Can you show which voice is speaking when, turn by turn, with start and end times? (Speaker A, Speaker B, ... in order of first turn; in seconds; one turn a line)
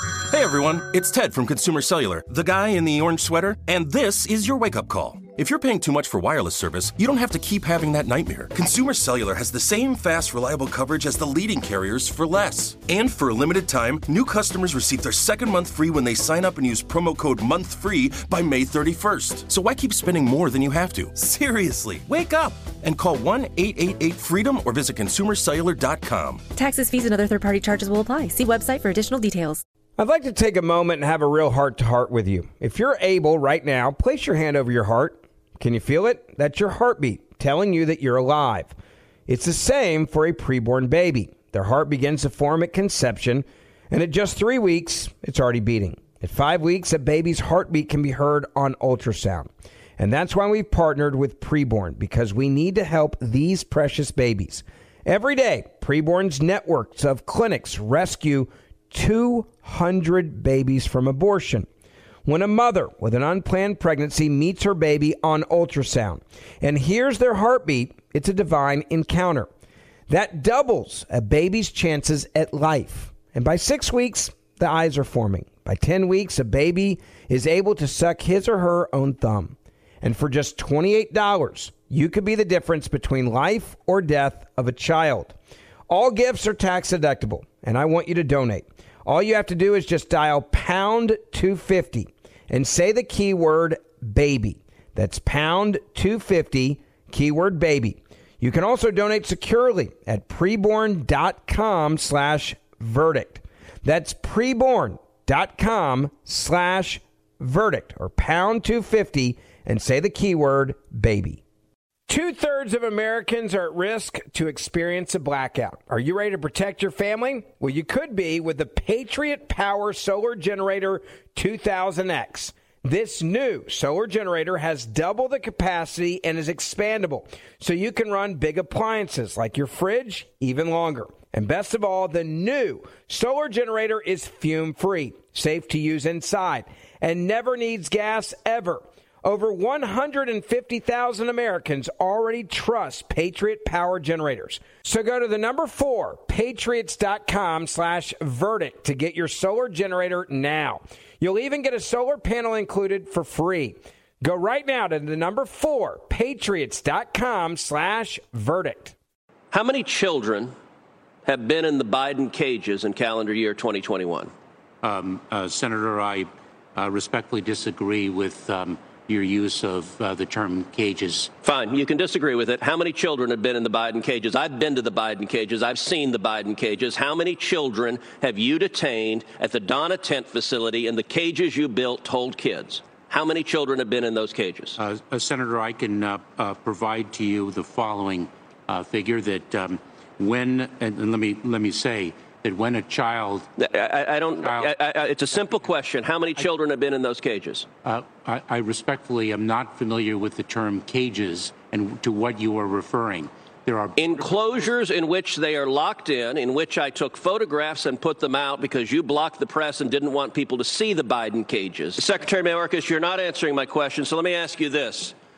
Speaker A: 0.2-26.5
Speaker B: 26.6-29.6
Speaker C: 30.0-38.8
Speaker C: 39.3-61.7
Speaker C: 62.2-69.5
Speaker C: 70.1-85.3
Speaker C: 85.9-111.4
Speaker C: 112.1-158.9
Speaker D: 159.5-160.5
Speaker D: 161.2-164.3
Speaker E: 164.8-171.3
Speaker D: 171.4-184.8
Speaker E: 184.8-193.5
Speaker D: 193.6-197.7
Speaker E: 194.4-194.8
Speaker E: 195.3-195.7
Speaker E: 197.8-204.7
Speaker D: 204.0-215.2